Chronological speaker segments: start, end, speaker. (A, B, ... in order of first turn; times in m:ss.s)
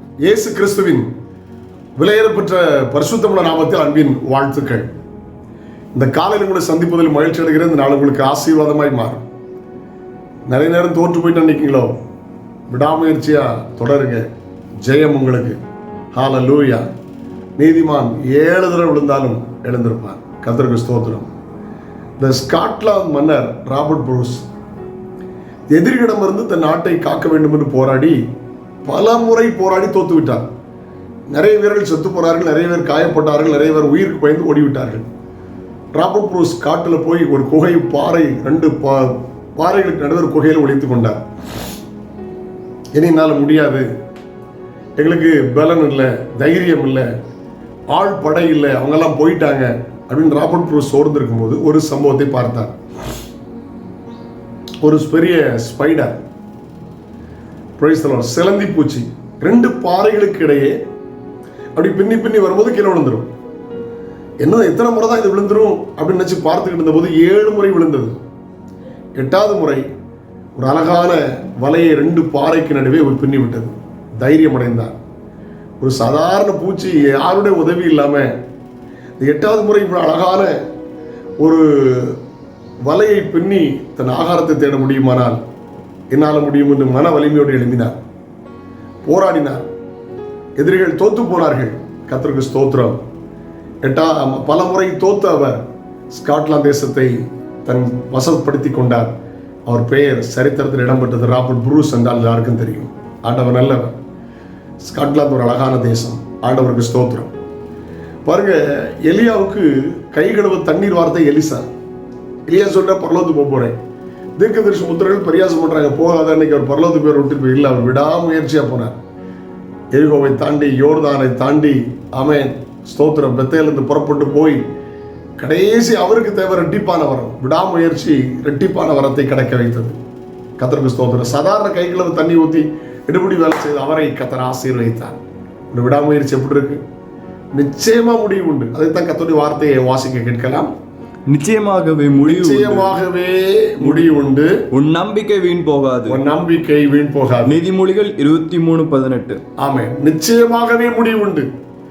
0:00.2-0:01.1 A
0:02.0-0:04.9 A
0:05.9-0:09.2 A
0:10.5-0:11.9 A
0:12.7-0:14.3 A
0:14.8-0:15.6 A
0:16.1-0:16.8 A
0:17.6-0:21.3 A
0:22.2-0:24.5 A
0:25.7-0:28.2 A
0:28.8-0:30.4 A
0:31.3-0:35.1 A
0:35.9-0:41.2 A
0:42.9-0:43.9 A
0:45.0-0:47.1 A
0:47.9-0:52.8 A
0:54.8-0:56.2 A
0:57.8-1:00.8 A
1:01.8-1:03.3 A
1:04.4-1:08.2 A
1:09.2-1:09.8 A
1:10.6-1:14.9 A
1:15.8-1:18.3 A
1:19.2-1:20.6 A
1:21.4-1:22.2 A
1:22.8-1:25.4 A
1:26.1-1:28.0 A
1:29.0-1:29.6 A
1:30.6-1:33.0 A
1:33.8-1:39.1 A
1:39.7-1:44.0 A
1:44.8-1:47.3 A
1:48.2-1:51.6 A
1:52.5-1:53.8 A
1:54.4-1:59.0 A
1:59.9-2:04.6 A
2:05.4-2:10.0 A
2:10.6-2:15.2 A
2:15.7-2:16.8 A
2:17.6-2:20.7 A
2:21.3-2:22.9 B
2:22.2-2:24.5 A
2:24.7-2:26.2 B
2:26.1-2:27.6 A
2:27.4-2:29.4 B
2:29.6-2:31.5 A